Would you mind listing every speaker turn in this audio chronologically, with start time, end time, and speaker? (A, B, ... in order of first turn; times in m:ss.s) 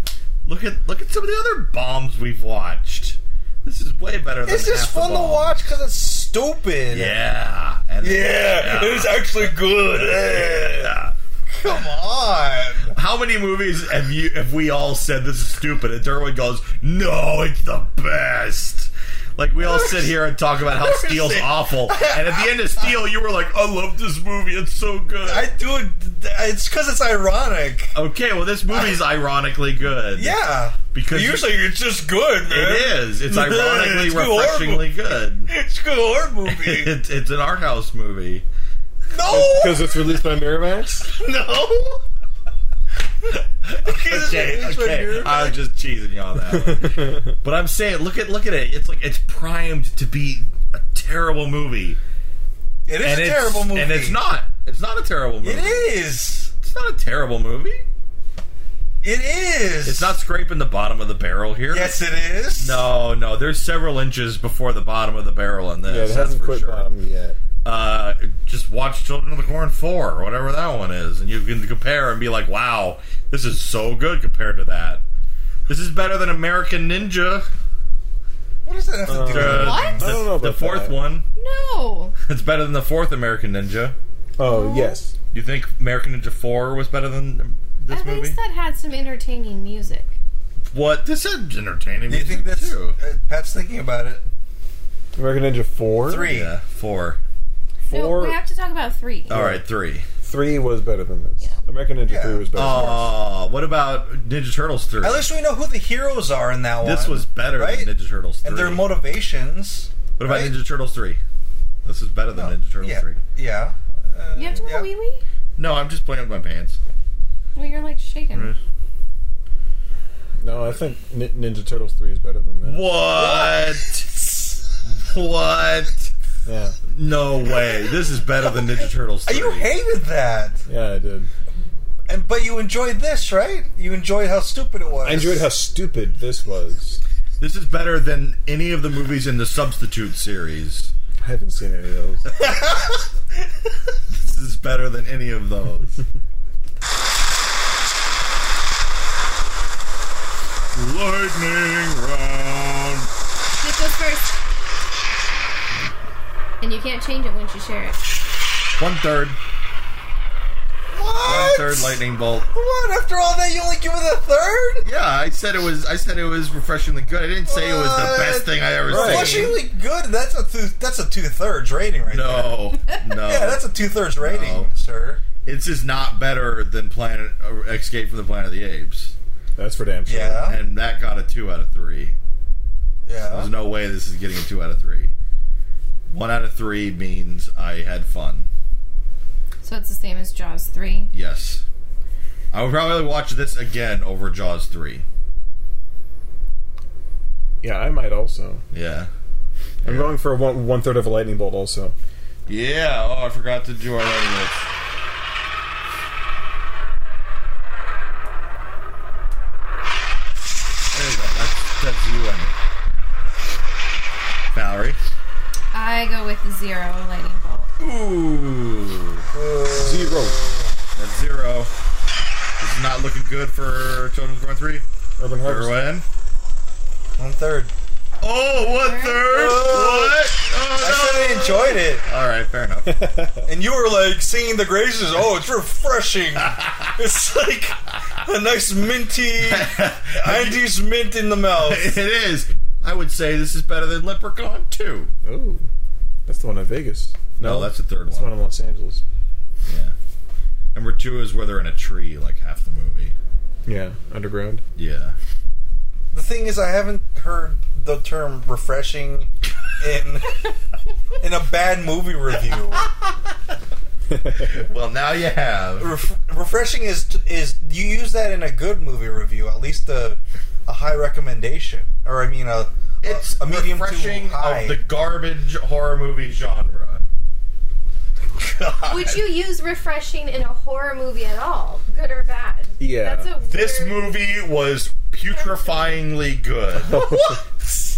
0:00.4-0:05.7 A
0:04.5-0:07.2 B
0:06.9-0:11.9 A
0:08.0-0:11.0 B
0:11.5-0:13.0 B
0:12.9-0:25.5 A
0:19.6-0:23.0 B
0:25.3-0:28.0 B
0:27.9-0:30.4 A
0:28.7-0:29.0 B
0:30.2-0:36.9 B
0:30.9-0:31.6 A
0:32.5-0:35.5 A
0:36.5-0:38.5 A
0:39.1-0:39.9 B
0:39.2-0:41.1 C
0:41.1-0:42.0 B
0:43.6-0:52.0 A
0:43.8-0:45.6 B
0:46.5-0:47.4 C
0:52.9-0:54.2 B
0:53.0-0:57.8 A
0:55.4-0:56.5 B
0:59.0-1:00.2 B
0:59.8-1:02.0 A
1:01.7-1:02.8 B
1:02.6-1:06.9 A
1:05.9-1:07.4 C
1:07.6-1:15.0 A
1:15.7-1:17.5 A
1:18.6-1:20.1 B
1:19.1-1:21.0 C
1:19.1-1:21.3 A
1:19.5-1:20.2 D
1:21.4-1:22.2 D
1:22.3-1:24.0 A
1:24.4-1:25.1 C
1:24.4-1:25.0 D
1:25.3-1:28.4 A
1:27.9-1:30.1 D
1:30.7-1:33.0 A
1:32.1-1:34.2 B
1:35.2-1:36.3 C
1:36.0-1:36.5 B
1:36.2-1:37.2 A
1:37.9-1:38.4 C
1:37.9-1:39.4 D
1:39.3-1:40.1 A
1:39.3-1:39.6 C
1:40.2-1:43.0 C
1:42.0-1:42.9 B
1:42.5-1:45.3 A
1:45.0-1:47.9 B
1:46.8-1:48.9 A
1:48.4-1:50.5 B
1:50.2-1:51.2 A
1:51.8-1:53.2 A
1:52.3-1:54.9 B
1:54.4-1:55.2 D
1:55.6-1:56.8 A
1:57.6-1:58.5 D
2:00.4-2:02.9 C
2:02.6-2:04.1 A
2:03.1-2:04.6 B
2:04.8-2:06.1 A
2:06.5-2:06.8 C
2:06.9-2:09.7 A
2:09.3-2:10.6 B
2:10.7-2:11.3 C
2:12.1-2:15.5 B
2:15.0-2:17.0 C
2:17.4-2:20.9 A
2:21.2-2:22.3 C
2:22.4-2:22.8 B
2:24.1-2:26.0 A
2:30.7-2:33.1 A
2:33.5-2:34.3 D
2:36.6-2:38.0 D
2:38.8-2:39.4 A
2:40.9-2:42.0 B
2:41.2-2:42.5 A
2:42.5-2:44.8 B
2:44.8-2:49.6 A
2:47.4-2:52.6 B
2:48.9-2:49.5 C
2:52.1-2:53.6 A
2:53.2-2:55.2 B
2:54.2-2:54.7 A
2:55.4-2:59.2 A
2:59.6-3:00.5 C
3:00.1-3:00.6 B
3:00.5-3:02.2 A
3:03.1-3:03.5 B
3:03.3-3:05.1 A
3:06.1-3:08.5 A
3:09.6-3:11.1 D
3:11.1-3:11.6 A
3:12.5-3:15.0 A
3:17.6-3:18.6 C
3:18.7-3:19.1 A
3:19.8-3:20.1 A
3:19.8-3:22.0 C
3:22.5-3:24.6 A
3:30.9-3:32.6 A
3:34.5-3:35.0 A
3:35.7-3:37.7 D
3:37.8-3:39.3 A
3:39.3-3:40.7 B
3:39.8-3:40.4 C
3:41.0-3:41.7 A
3:42.6-3:44.8 A
3:45.2-3:45.8 C
3:45.4-3:46.0 A
3:47.2-3:47.7 B
3:48.2-3:53.1 A
3:48.6-3:49.3 D
3:49.2-3:50.2 B
3:50.8-3:52.0 B
3:52.9-3:53.5 C
3:53.5-4:02.0 B
3:56.5-3:56.8 A
3:59.4-4:00.7 A
4:01.6-4:05.1 A
4:05.2-4:05.7 C
4:06.3-4:09.0 C
4:07.4-4:08.3 A
4:09.7-4:10.0 A
4:10.7-4:13.2 A
4:13.7-4:14.6 C
4:14.8-4:15.2 A
4:16.1-4:20.4 B
4:21.2-4:22.9 B
4:24.1-4:24.6 C
4:24.4-4:25.9 A
4:25.8-4:34.8 B
4:33.0-4:37.0 A
4:38.4-4:39.2 A
4:38.8-4:44.1 D
4:42.8-4:43.3 C
4:43.4-4:47.1 A
4:45.3-4:46.0 D
4:46.8-4:47.4 C